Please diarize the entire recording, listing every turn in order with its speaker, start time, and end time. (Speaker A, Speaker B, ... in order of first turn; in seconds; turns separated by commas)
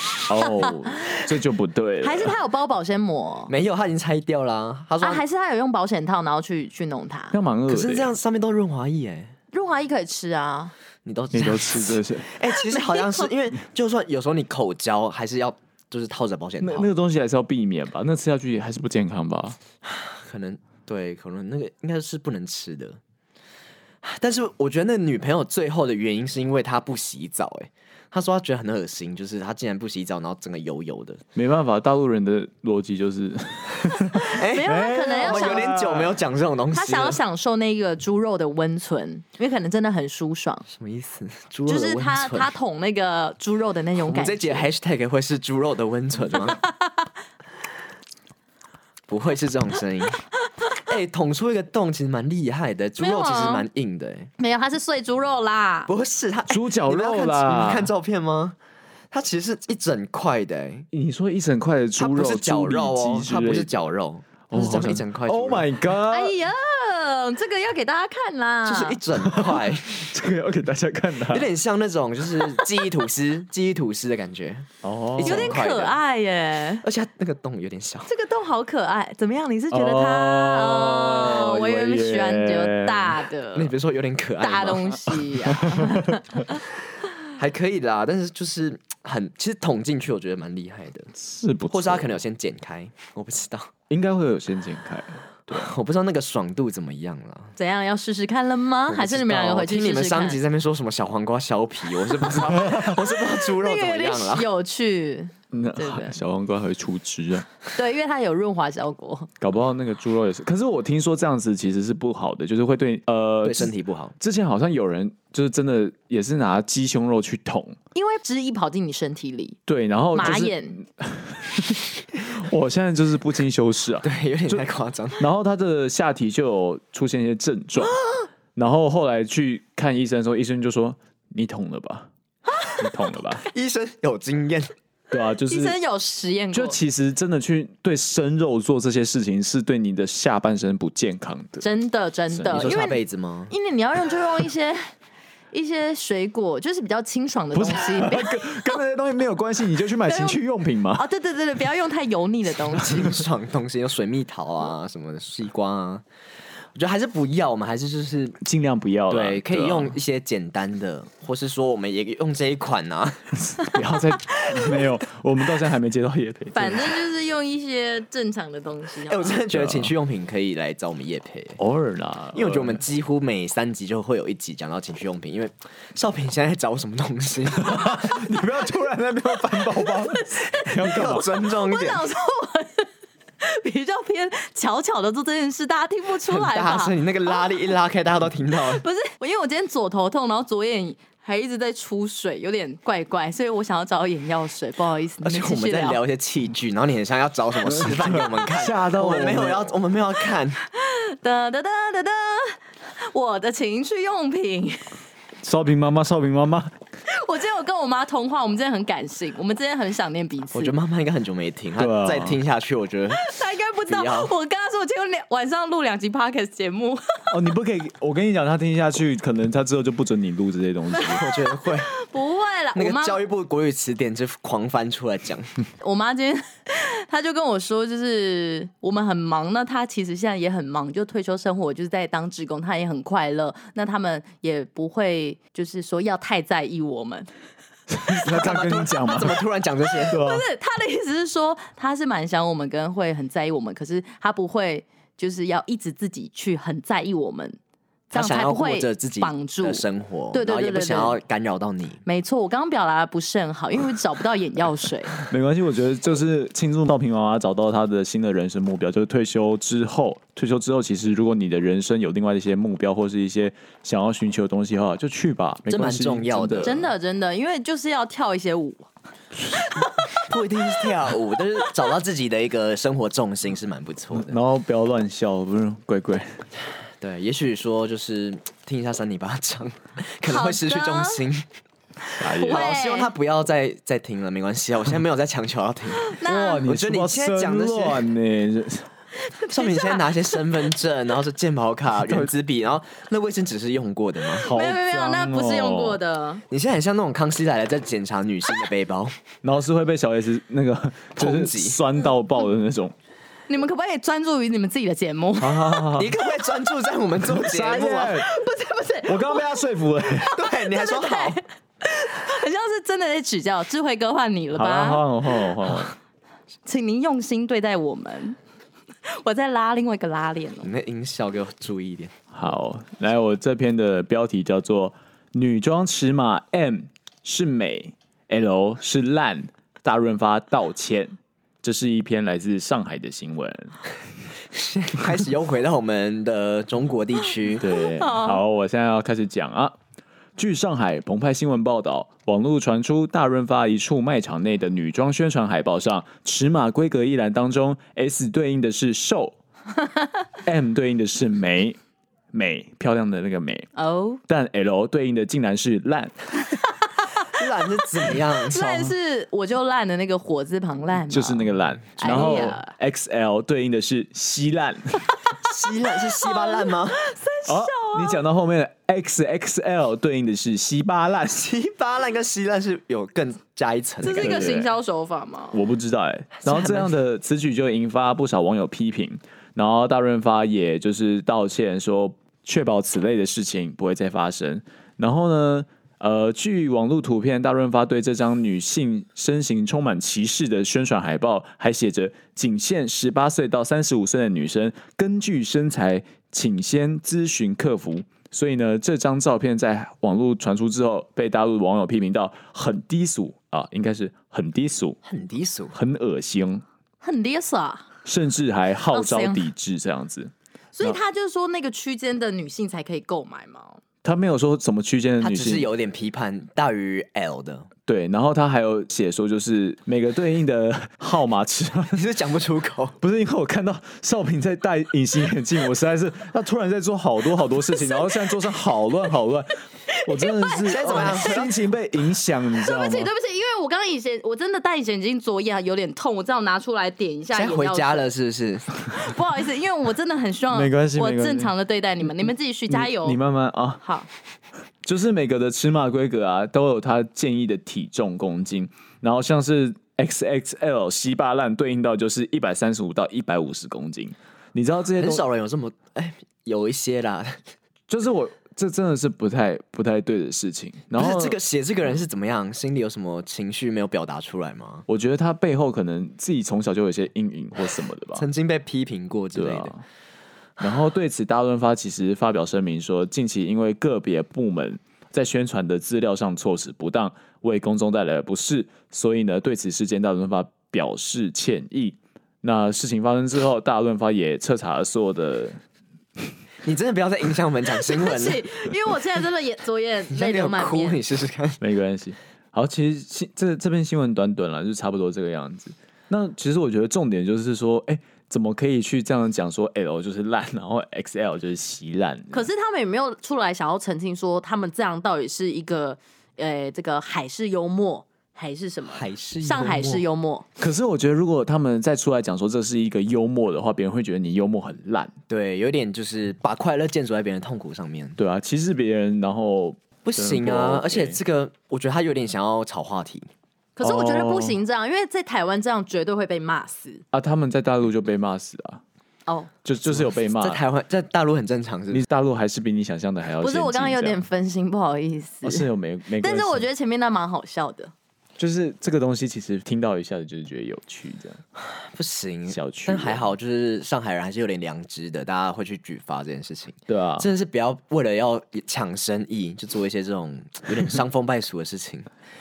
Speaker A: 0.3-2.4, Speaker B: 0.4-1.2, Speaker B: 2.0-3.5, Speaker C: 3.5-5.2, Speaker B: 5.0-7.4, Speaker A: 7.3-8.1, Speaker C: 7.7-9.3, Speaker B: 9.5-10.7, Speaker C: 11.0-16.9, Speaker A: 11.3-12.3, Speaker B: 12.6-13.3, Speaker A: 16.6-19.6, Speaker C: 19.8-23.0, Speaker C: 24.0-31.2, Speaker A: 31.3-36.1, Speaker B: 34.1-35.7, Speaker C: 34.2-37.2, Speaker B: 36.7-40.6, Speaker C: 40.7-42.5, Speaker B: 41.6-44.7, Speaker C: 44.0-46.6, Speaker C: 49.1-50.2, Speaker C: 50.8-54.3, Speaker B: 53.0-53.6, Speaker B: 54.4-55.9, Speaker C: 55.9-58.5, Speaker A: 56.5-57.9, Speaker C: 59.1-60.9, Speaker A: 60.9-63.7, Speaker C: 62.0-65.7, Speaker A: 64.5-66.3, Speaker B: 66.1-69.0, Speaker C: 68.6-70.1, Speaker A: 69.2-71.5, Speaker C: 71.3-76.0, Speaker A: 74.8-75.6, Speaker B: 75.2-76.8, Speaker C: 76.8-78.1, Speaker B: 78.1-83.7, Speaker A: 79.7-83.2, Speaker C: 83.5-85.2, Speaker B: 84.4-86.2, Speaker A: 85.5-86.2, Speaker C: 87.3-91.1, Speaker A: 91.2-92.2, Speaker C: 91.7-93.7, Speaker A: 93.9-95.7, Speaker C: 95.5-97.5, Speaker B: 97.5-100.4, Speaker C: 98.9-104.5, Speaker B: 103.4-106.2, Speaker A: 105.5-107.5, Speaker B: 107.7-109.3, Speaker A: 109.4-117.8, Speaker C: 113.4-114.1, Speaker B: 117.9-119.6, Speaker A: 119.7-124.6, Speaker B: 120.1-120.8, Speaker C: 124.0-125.2, Speaker A: 125.2-128.0, Speaker A: 128.5-132.1, Speaker A: 132.8-133.4, Speaker C: 133.5-134.7, Speaker A: 135.1-135.8, Speaker B: 135.5-136.8, Speaker A: 136.5-141.7, Speaker B: 141.6-143.0, Speaker A: 142.3-142.7, Speaker C: 142.5-143.5, Speaker B: 143.5-144.8, Speaker B: 145.5-148.8, Speaker A: 147.5-151.0, Speaker B: 150.1-150.4, Speaker B: 150.9-153.1, Speaker C: 152.7-156.0, Speaker C: 156.7-158.4, Speaker A: 158.4-159.9, Speaker C: 159.1-163.3, Speaker A: 163.4-167.0, Speaker B: 164.3-164.8, Speaker B: 166.5-169.4, Speaker C: 169.1-171.6, Speaker A: 169.5-169.9, Speaker A: 171.6-172.8, Speaker C: 172.3-178.2, Speaker A: 177.6-181.3, Speaker B: 179.8-182.9, Speaker C: 180.8-182.1, Speaker B: 183.4-187.4, Speaker C: 186.2-188.8, Speaker B: 188.7-196.0, Speaker C: 195.2-200.6, Speaker A: 197.7-199.7, Speaker B: 200.8-205.0, Speaker A: 205.4-206.7, Speaker B: 207.1-210.7, Speaker C: 210.5-213.2, Speaker A: 211.8-212.4, Speaker B: 213.2-217.2, Speaker C: 213.9-214.3, Speaker A: 217.3-221.2, Speaker B: 221.0-223.2, Speaker C: 221.1-221.9, Speaker C: 222.7-225.5, Speaker B: 225.8-237.3, Speaker A: 237.9-239.4, Speaker C: 238.2-240.2, Speaker B: 240.1-247.6, Speaker A: 240.1-240.4, Speaker B: 248.1-251.2, Speaker C: 248.1-252.0, Speaker B: 252.1-255.1, Speaker A: 255.2-266.8, Speaker C: 265.7-266.9, Speaker B: 266.6-268.9, Speaker B: 269.6-270.2, Speaker C: 270.1-274.4, Speaker A: 274.1-276.4, Speaker C: 277.0-281.5, Speaker B: 280.3-281.2, Speaker B: 282.1-283.1, Speaker A: 282.2-282.7, Speaker C: 282.4-288.1, Speaker B: 286.0-286.7, Speaker A: 286.2-288.9, Speaker B: 289.2-290.5, Speaker C: 289.5-294.5, Speaker A: 294.4-296.0, Speaker B: 294.5-296.4, Speaker C: 296.5-299.2, Speaker A: 299.4-302.9, Speaker C: 301.2-301.8, Speaker B: 303.5-305.9, Speaker A: 305.4-306.1, Speaker C: 305.9-308.2, Speaker A: 307.2-308.3, Speaker B: 308.2-309.6, Speaker A: 309.1-310.3, Speaker C: 310.3-311.4, Speaker B: 310.3-315.0, Speaker A: 314.5-315.9, Speaker B: 316.6-318.4, Speaker B: 319.1-320.7, Speaker C: 320.6-322.1, Speaker A: 322.3-333.8, Speaker C: 334.5-337.6, Speaker A: 337.6-339.8, Speaker B: 337.8-338.4, Speaker A: 340.4-349.4, Speaker A: 350.4-351.8, Speaker A: 352.3-353.7, Speaker B: 353.8-354.2, Speaker A: 354.3-356.2, Speaker C: 357.3-358.9, Speaker B: 358.4-362.7, Speaker A: 361.1-365.0, Speaker C: 362.1-362.4, Speaker C: 365.5-367.0, Speaker B: 366.2-368.2, Speaker A: 367.5-371.4, Speaker C: 371.3-374.5, Speaker B: 374.0-375.6, Speaker A: 374.1-374.7, Speaker A: 375.5-405.0, Speaker C: 376.4-376.9, Speaker C: 405.0-405.8, Speaker A: 405.7-406.6, Speaker B: 407.0-407.9, Speaker A: 408.0-411.0, Speaker B: 408.9-409.4, Speaker B: 410.8-413.8, Speaker A: 414.0-415.7, Speaker C: 415.2-417.7, Speaker A: 417.9-422.0, Speaker C: 421.9-422.9, Speaker A: 423.0-433.1, Speaker B: 427.7-428.3, Speaker B: 429.9-431.5, Speaker C: 430.7-431.5, Speaker B: 432.6-438.0, Speaker C: 437.3-438.7, Speaker B: 438.9-443.2, Speaker A: 440.5-441.5, Speaker A: 442.7-443.8, Speaker B: 443.8-444.1, Speaker A: 444.8-455.2, Speaker C: 455.0-457.4, Speaker A: 457.9-461.4, Speaker C: 460.9-464.9, Speaker A: 464.9-468.2, Speaker C: 468.1-469.7, Speaker A: 469.3-469.8, Speaker A: 470.6-485.6, Speaker C: 486.6-488.5, Speaker B: 487.9-491.0, Speaker C: 490.1-491.6, Speaker A: 491.6-502.5, Speaker B: 502.3-510.4, Speaker C: 508.9-510.0, Speaker A: 510.6-515.1, Speaker C: 515.3-518.2, Speaker A: 518.2-521.2, Speaker C: 520.0-523.3, Speaker B: 523.8-527.0, Speaker A: 523.8-524.6, Speaker A: 527.1-528.8, Speaker A: 529.6-530.6, Speaker C: 529.9-532.0, Speaker A: 531.9-534.2, Speaker B: 533.4-535.7, Speaker A: 535.4-536.6, Speaker B: 536.2-537.9, Speaker A: 538.4-541.4, Speaker C: 541.7-552.1, Speaker A: 542.5-543.2, Speaker A: 546.9-547.3